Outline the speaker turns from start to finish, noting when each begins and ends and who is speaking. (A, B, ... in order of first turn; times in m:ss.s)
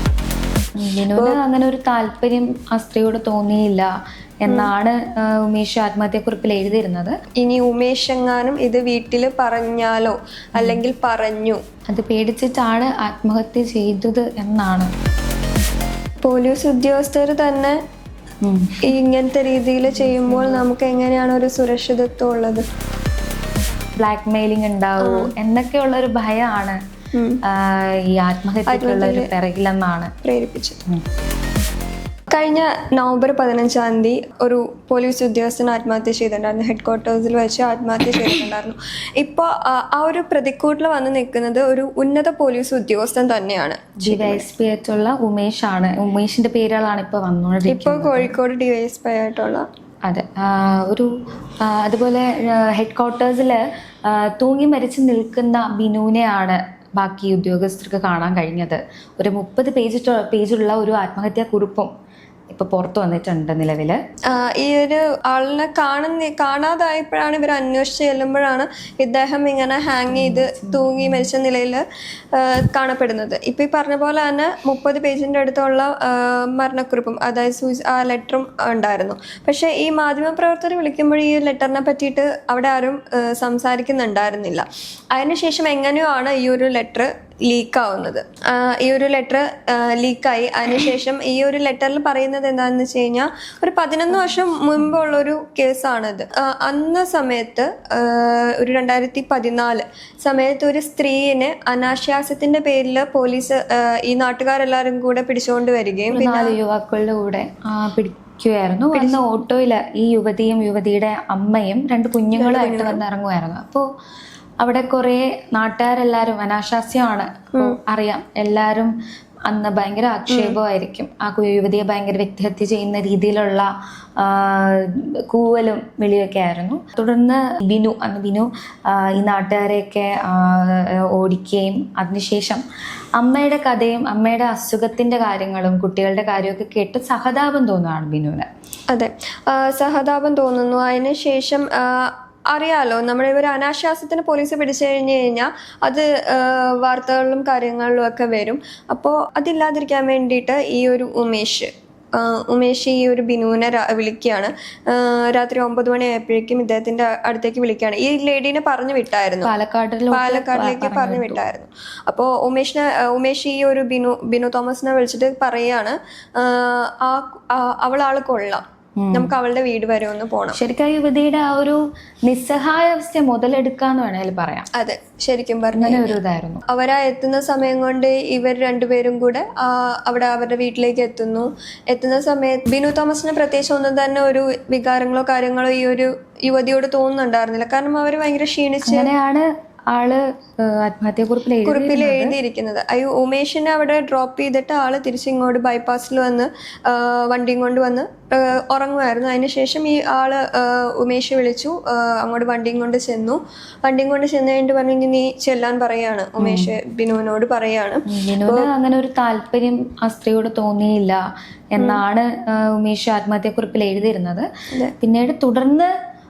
0:00.8-0:03.9 A
0:04.4-0:07.1 A
0:07.4-0:11.6 B
0:11.9-0:14.9 A
0:16.2-0:17.8 B
0:18.4-0:18.8 A
0:18.8-0:22.6 B
0:19.9-0:20.6 A
0:24.0-0:26.8 A
0:25.0-0:25.3 B
0:27.1-0:27.4 B
0:27.5-0:30.1 A
0:28.7-0:29.3 B
0:30.2-0:30.8 B
0:32.3-0:44.4 B
0:44.0-0:48.3 A
0:47.7-0:49.6 B
0:50.0-0:51.1 A
0:51.6-1:01.9 A
1:02.5-1:04.0 A
1:04.3-1:46.6 B
1:10.1-1:11.3 A
1:46.1-1:53.8 A
1:48.9-1:49.2 B
1:52.3-1:53.0 B
1:54.6-1:58.9 A
1:59.5-2:12.6 A
2:00.3-2:00.6 B
2:13.2-2:18.5 A
2:18.9-2:39.5 B
2:39.4-2:41.4 A
2:40.1-2:50.6 B
2:49.0-2:49.3 A
2:50.5-2:54.7 A
2:54.7-3:09.1 B
2:55.7-2:56.6 A
3:08.8-3:12.3 A
3:11.6-3:28.7 B
3:26.4-3:26.7 A
3:28.1-3:31.2 A
3:31.7-3:34.4 A
3:35.0-3:35.9 A